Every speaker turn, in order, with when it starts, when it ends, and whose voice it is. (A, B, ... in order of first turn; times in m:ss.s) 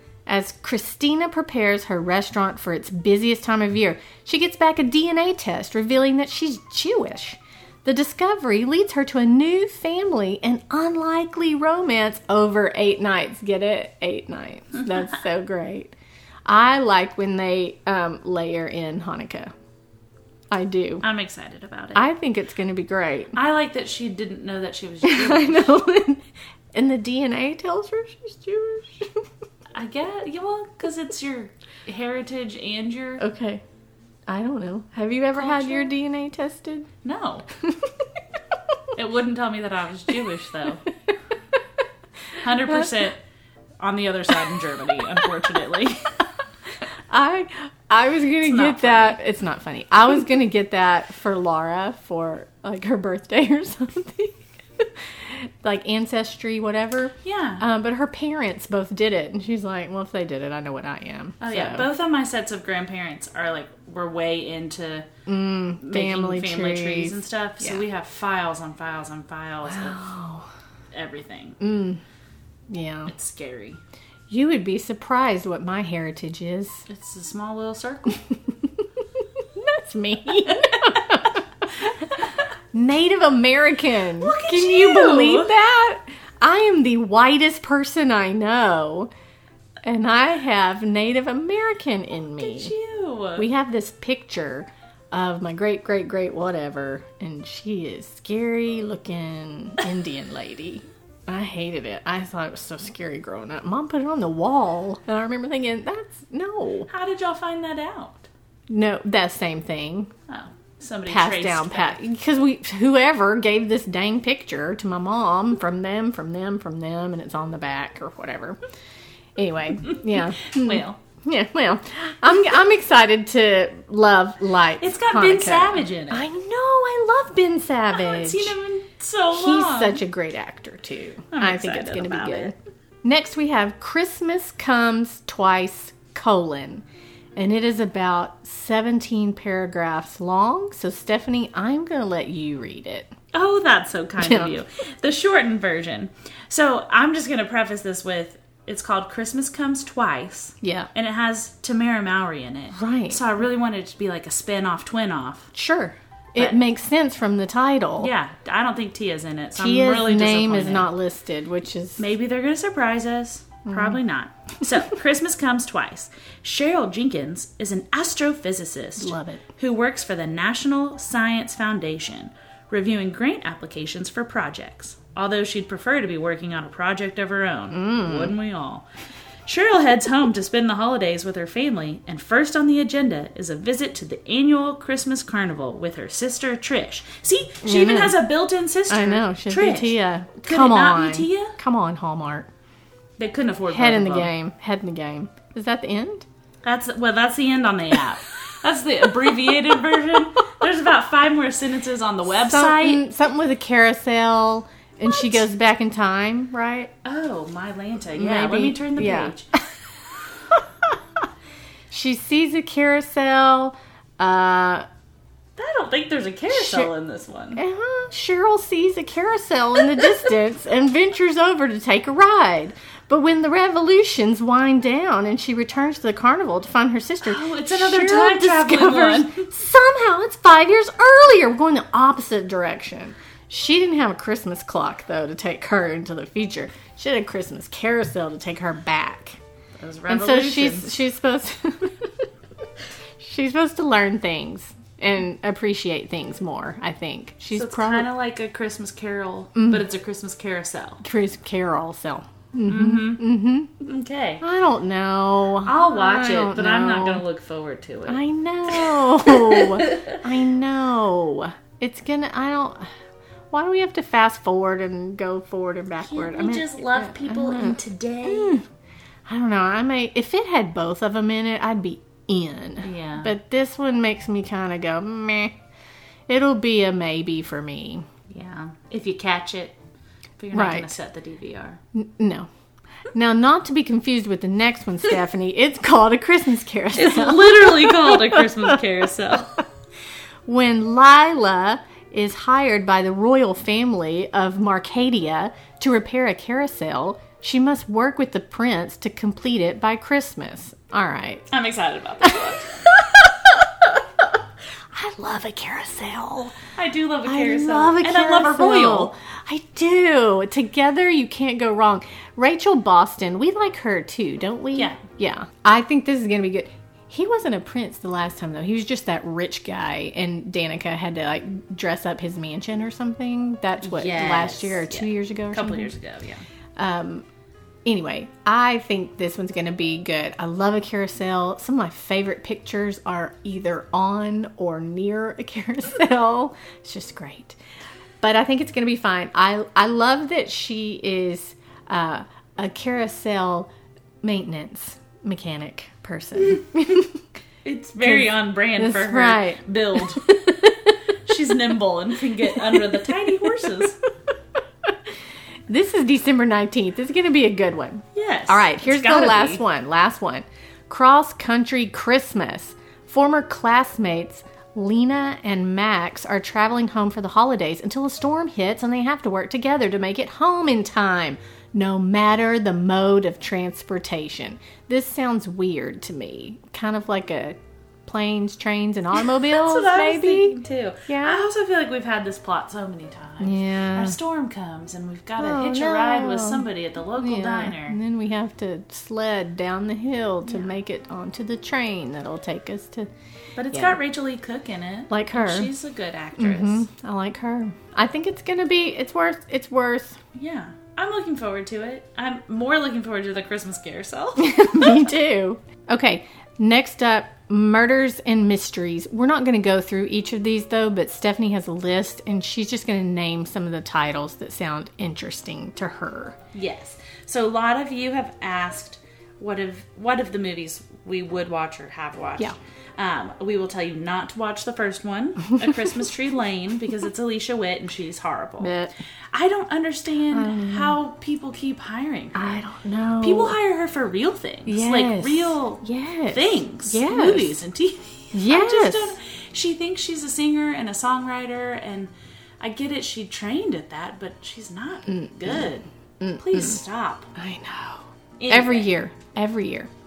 0:00.3-0:15.9 A
0:16.5-0:19.5 A
0:20.5-0:21.0 A
0:21.0-0:22.1 B
0:22.0-0:23.4 A
0:23.3-0:25.8 B
0:25.0-0:29.3 A
0:29.8-0:33.2 B
0:33.2-0:33.6 A
0:34.3-0:36.9 A
0:35.4-0:35.9 B
0:37.0-0:37.5 B
0:37.6-0:37.9 A
0:39.0-0:40.9 B
0:42.4-0:43.2 B
0:43.8-0:46.1 B
0:47.1-1:01.9 A
0:48.4-0:49.2 B
0:57.2-0:57.6 B
1:01.4-1:05.1 B
1:05.3-1:07.8 A
1:05.8-1:10.0 B
1:09.6-1:10.5 A
1:10.9-1:11.6 B
1:11.6-1:12.0 A
1:12.7-1:13.1 A
1:13.1-1:13.8 B
1:14.3-1:16.8 A
1:16.9-1:18.2 B
1:19.4-1:29.1 A
1:20.5-1:21.2 B
1:24.2-1:25.5 B
1:29.8-1:32.7 A
1:32.4-1:33.5 B
1:33.4-1:46.9 A
1:46.9-1:48.3 B
1:48.7-1:50.1 A
1:50.3-1:52.0 B
1:51.1-1:58.6 A
1:59.4-2:08.6 A
1:59.9-2:01.0 B
2:04.8-2:06.3 B
2:07.9-2:10.0 B
2:09.3-2:16.8 A
2:11.3-2:12.5 B
2:17.4-2:23.1 A
2:23.3-2:35.5 B
2:24.2-2:24.5 A
2:30.6-2:30.9 A
2:32.7-2:33.2 A
2:35.5-2:38.1 A
2:38.0-2:40.9 B
2:39.6-2:42.0 A
2:42.0-2:58.9 B
2:43.7-2:44.0 A
2:49.0-2:49.4 A
2:57.7-2:58.4 A
2:59.5-3:11.6 B
3:07.6-3:08.2 A
3:08.9-3:12.5 A
3:13.2-3:14.3 B
3:13.7-3:16.3 A
3:16.6-3:23.0 B
3:22.4-3:26.9 A
3:27.0-3:29.5 B
3:28.2-3:29.4 A
3:30.5-3:30.9 A
3:31.9-3:34.9 A
3:35.6-3:37.6 B
3:36.5-3:36.9 A
3:37.6-3:59.4 A
3:47.2-3:49.5 B
3:59.8-4:01.0 B
4:00.1-4:02.3 A
4:03.2-4:08.1 A
4:07.5-4:11.0 B
4:09.6-4:09.8 A
4:11.0-4:13.7 A
4:12.7-4:13.2 B
4:13.8-4:14.4 B
4:14.4-4:17.2 A
4:15.6-4:20.2 B
4:18.1-4:22.9 A
4:23.5-4:28.6 A
4:26.0-4:28.6 B
4:29.3-4:35.6 A
4:32.8-4:33.4 B
4:36.3-4:38.1 A
4:38.3-4:39.8 B
4:40.4-4:41.8 B
4:40.5-4:40.9 A
4:41.9-4:42.5 A
4:43.1-4:48.5 A
4:46.9-4:49.6 B
4:50.5-5:01.5 A
5:01.5-5:02.8 B
5:02.2-5:04.4 A
5:04.9-5:06.6 A
5:06.8-5:09.1 B
5:07.3-5:25.9 A
5:14.8-5:15.0 B
5:23.8-5:26.4 B
5:26.8-5:27.2 A
5:27.8-5:37.6 A
5:38.2-5:43.7 A
5:44.2-5:47.2 A
5:47.6-5:50.4 B
5:48.0-5:50.7 A
5:51.2-5:54.0 B
5:55.7-6:21.4 A
5:58.2-5:59.6 B
6:19.2-6:28.0 B
6:23.4-6:24.2 A
6:25.4-6:33.1 A
6:33.6-6:36.9 B
6:33.7-6:34.0 A
6:35.1-6:35.7 A
6:36.4-6:40.2 A
6:40.3-6:45.1 B
6:44.4-6:56.4 A
6:56.5-7:08.8 B
7:08.6-7:08.9 A
7:09.3-7:12.6 B
7:10.3-7:11.0 A
7:12.4-7:13.6 A
7:13.2-7:25.9 B
7:14.7-7:17.6 A
7:18.3-7:19.2 A
7:25.1-7:26.8 A
7:26.4-7:27.3 B
7:27.4-7:29.9 A
7:28.4-7:28.9 B